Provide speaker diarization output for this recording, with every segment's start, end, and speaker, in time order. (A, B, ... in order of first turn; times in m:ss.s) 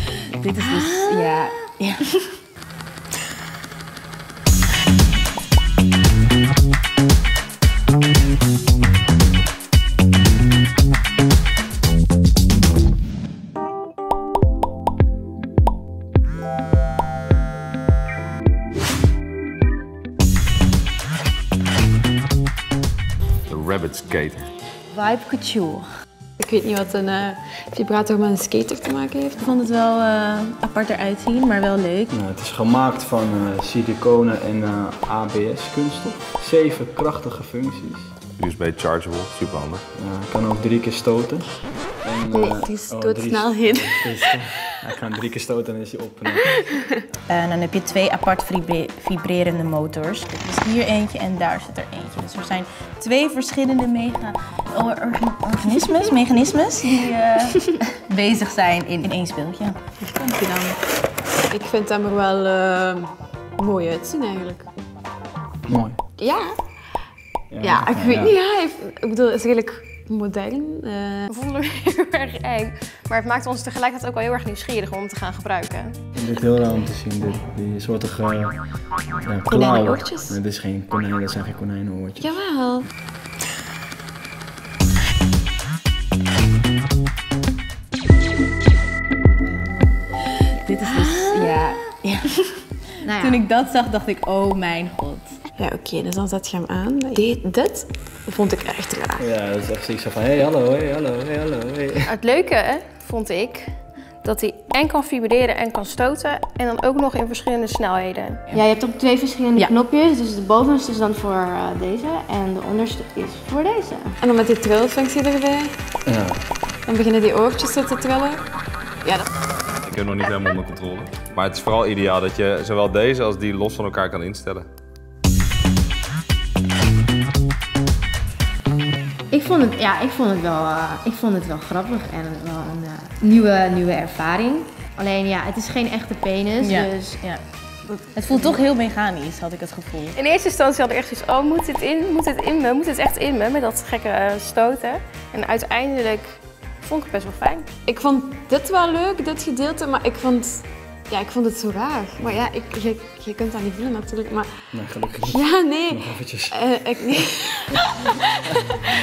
0:00.3-0:01.2 A
0:00.7-0:01.7 B
0:01.0-0:01.3 C
0:23.5-0:24.5 D
0:25.0-0:25.4 C
0:26.4-0:30.0 A
0:29.5-0:31.9 B
0:30.6-0:31.0 A
0:32.1-0:38.1 E
0:38.4-0:39.8 D
0:40.0-0:46.6 E
0:42.4-0:44.3 A
0:47.3-1:00.5 B
1:01.5-1:04.7 A
1:05.7-1:06.0 E
1:06.2-1:06.5 A
1:07.5-1:08.4 E
1:07.6-1:11.3 A
1:11.3-1:15.9 F
1:16.1-1:18.6 E
1:19.1-1:22.4 E
1:19.5-1:20.4 A
1:22.2-1:22.9 A
1:29.4-1:30.0 C
1:30.6-1:31.0 C
1:30.7-1:32.2 B
1:30.7-1:31.2 A
1:33.0-1:33.4 C
1:33.2-1:35.4 B
1:34.0-1:34.4 A
1:35.6-1:39.2 A
1:39.2-1:42.1 E
1:42.1-1:48.4 F
1:48.5-1:54.2 C
1:54.2-1:55.7 A
1:56.0-1:56.4 E
1:56.8-1:58.4 A
1:59.8-2:04.6 D
2:09.3-2:17.2 C
2:16.6-2:17.4 B
2:17.9-2:18.6 C
2:18.1-2:20.2 B
2:20.2-2:27.7 F
2:27.9-2:34.5 A
2:34.7-2:36.6 E
2:35.2-2:38.9 A